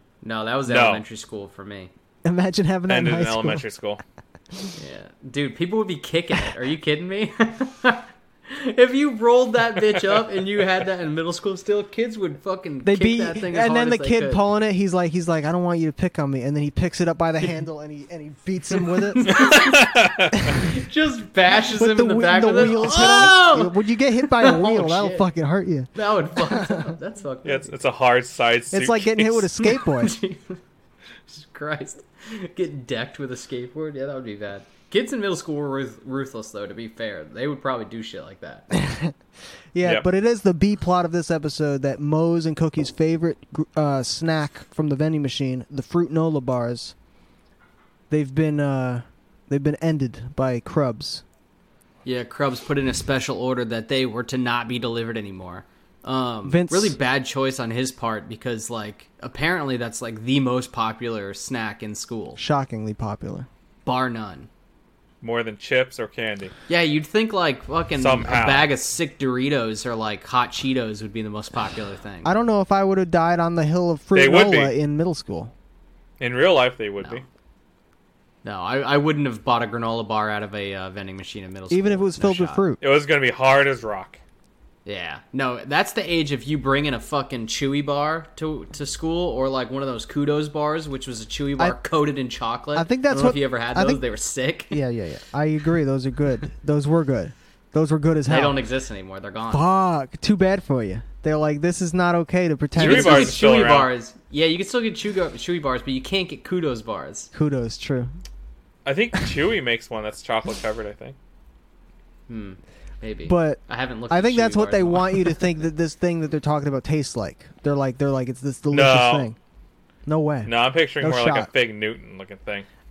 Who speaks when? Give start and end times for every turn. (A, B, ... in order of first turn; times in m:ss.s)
0:00.2-0:01.9 A
0:00.7-0:01.0 B
0:02.2-0:03.6 C
0:02.9-0:04.0 B
0:04.8-0:14.4 A
0:12.8-0:19.2 C
0:18.8-0:25.3 A
0:19.3-0:20.5 B
0:21.6-0:26.9 C
0:26.0-0:27.8 A
0:27.4-0:29.5 B
0:28.7-0:30.1 C
0:29.7-0:30.6 A
0:31.3-0:38.7 A
0:38.7-0:39.2 C
0:39.7-0:47.0 C
0:48.1-0:51.2 C
0:52.0-1:02.4 A
0:56.4-0:57.0 C
1:02.4-1:03.5 C
1:03.8-1:04.5 A
1:05.2-1:06.5 B
1:06.7-1:12.3 A
1:08.0-1:08.7 B
1:12.2-1:15.5 C
1:14.2-1:14.7 B
1:16.2-1:17.2 B
1:18.4-1:22.6 A
1:21.7-1:22.8 C
1:22.8-1:24.2 B
1:24.9-1:34.8 A
1:32.8-1:34.0 C
1:34.7-1:38.6 C
1:38.3-1:39.6 A
1:39.5-1:43.4 C
1:42.8-1:47.3 A
1:42.8-1:43.9 B
1:47.3-1:48.1 C
1:48.8-1:51.2 B
1:52.3-1:55.6 A
1:53.3-1:59.4 C
1:58.7-1:59.3 B
2:00.1-2:01.5 C
2:00.5-2:02.7 B